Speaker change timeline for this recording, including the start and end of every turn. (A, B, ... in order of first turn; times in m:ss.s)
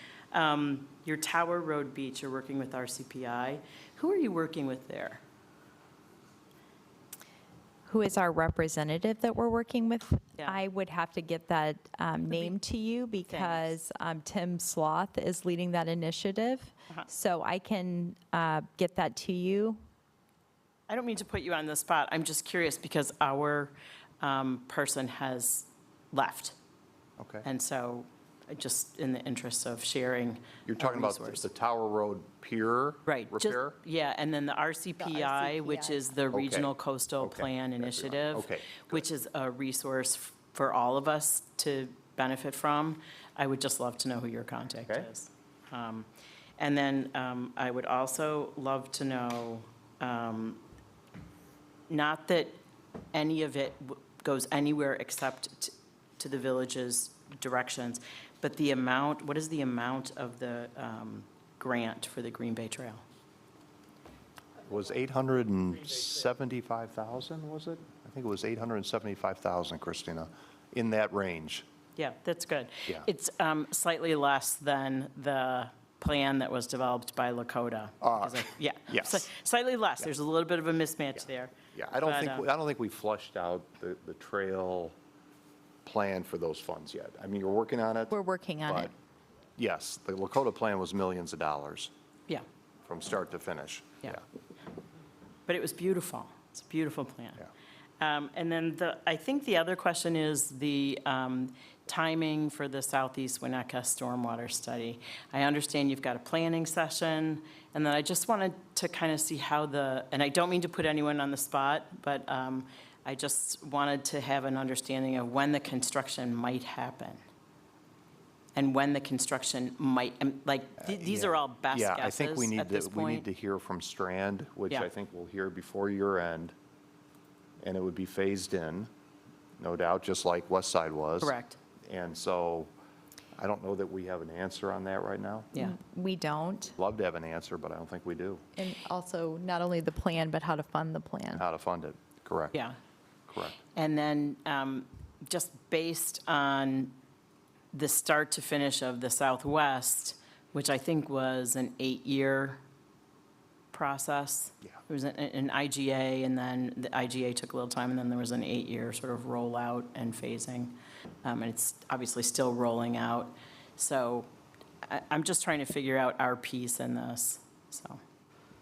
0:00.3-0:05.2 A
0:07.9-0:19.8 B
0:13.3-0:13.8 A
0:20.9-0:26.6 A
0:27.2-0:27.4 C
0:27.4-0:31.5 A
0:30.6-0:33.8 C
0:33.0-0:50.6 A
0:35.0-0:35.9 B
0:36.3-0:39.0 C
0:51.9-0:52.6 A
0:53.1-1:03.0 A
1:04.6-1:11.6 C
1:12.0-1:22.5 A
1:18.0-1:19.3 C
1:21.7-1:24.9 C
1:25.8-1:28.1 C
1:28.1-1:28.9 B
1:29.6-1:31.9 C
1:32.8-1:34.2 C
1:35.5-1:37.5 A
1:38.0-1:57.2 A
1:58.5-2:03.3 A
2:00.8-2:06.5 C
2:07.6-2:08.9 C
2:09.6-2:11.3 C
2:11.2-2:11.6 A
2:11.8-2:12.7 C
2:13.4-2:15.5 C
2:15.6-2:16.8 B
2:16.8-2:18.4 C
2:18.6-2:21.4 B
2:21.3-2:22.5 C
2:23.3-2:23.6 C
2:23.7-2:27.0 A
2:27.7-2:32.6 A
2:33.7-2:44.3 A
2:44.8-2:48.0 A